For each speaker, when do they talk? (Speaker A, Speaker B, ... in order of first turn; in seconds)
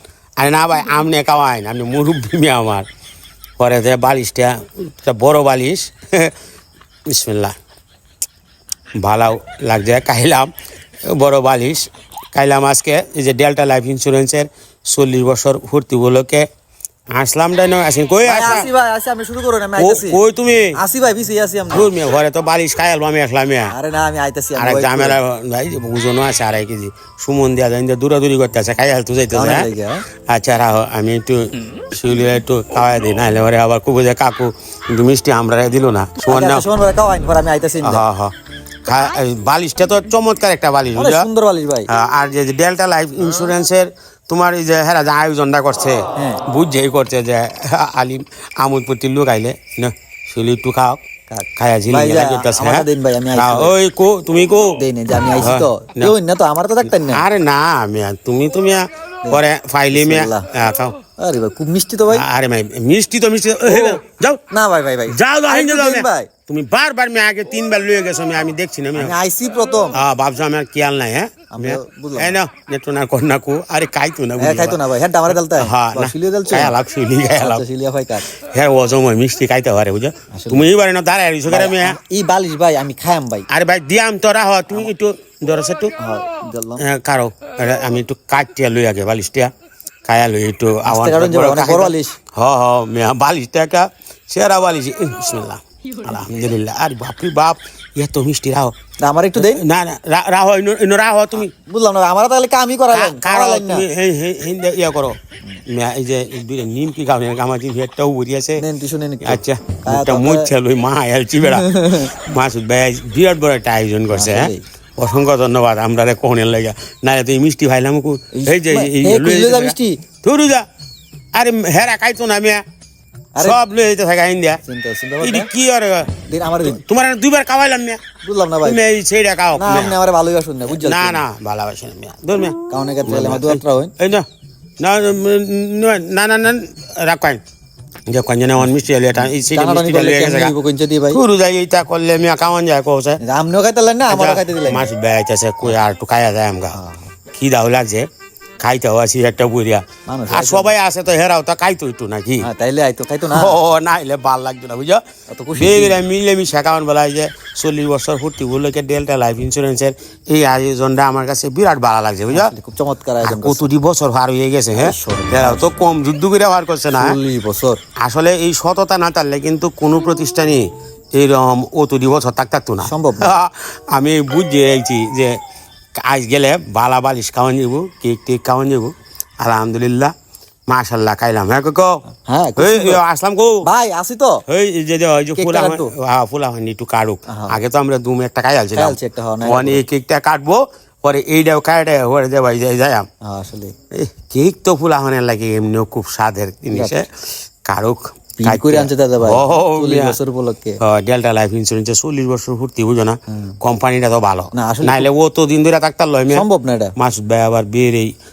Speaker A: 0.4-2.9, 3.6-6.3, 7.1-7.5, 9.0-10.5, 11.1-16.4, 17.1-18.7, 19.8-20.8, 21.7-23.7, 24.6-29.7, 30.3-36.7, 37.8-38.3, 38.9-41.3, 41.9-51.0, 51.6-54.8, 55.4-56.1, 56.8-61.0, 62.1-64.4, 65.1-69.2, 69.9-77.6, 78.3-82.0, 83.5-85.9, 86.8-89.5, 90.1-98.7, 99.4-101.5, 102.9-108.6, 109.2-120.7, 121.3-122.6, 123.4-124.6, 125.2-128.0, 128.6-130.0, 130.7-134.3, 134.8-137.4, 138.1-140.5, 141.1-143.2, 144.1-146.8, 147.3-148.1, 148.6-152.5, 153.3-155.0, 155.5-162.5, 163.2-167.2, 168.0-175.4, 176.0-180.1, 180.7-182.0, 182.6-183.7, 184.5-193.1, 194.0-197.1, 197.7-200.2, 200.8-206.4, 207.0-208.1
Speaker B: 18.2-20.2, 20.7-21.9, 23.7-25.2, 29.3-30.0, 36.3-38.0, 41.0-41.9, 46.2-46.4, 51.3-53.8, 54.8-57.2, 59.2-60.5, 61.2-62.2, 63.6-66.3, 69.0-70.0, 71.5-72.4, 74.4-76.8, 77.4-78.3, 80.3-80.7, 81.5-83.5, 86.0-86.8, 90.8-92.2, 99.0-99.6, 101.7-103.9, 108.6-110.5, 111.4-112.1, 114.1-114.6, 118.3-120.0, 124.7-125.5, 126.3-126.8, 128.2-128.8, 129.6-131.2, 132.7-133.9, 139.2-141.2, 143.2-144.9, 146.7-147.1, 150.1-150.8, 152.4-153.6, 155.3-156.0, 162.3-163.7, 164.7-165.7, 166.9-167.8, 172.8-173.3, 182.2-183.0, 183.7-184.4, 185.4-185.9, 187.3-187.6, 188.8-189.8, 193.2-193.7, 196.7-197.0, 198.4-200.8, 204.5-205.1, 206.3-206.9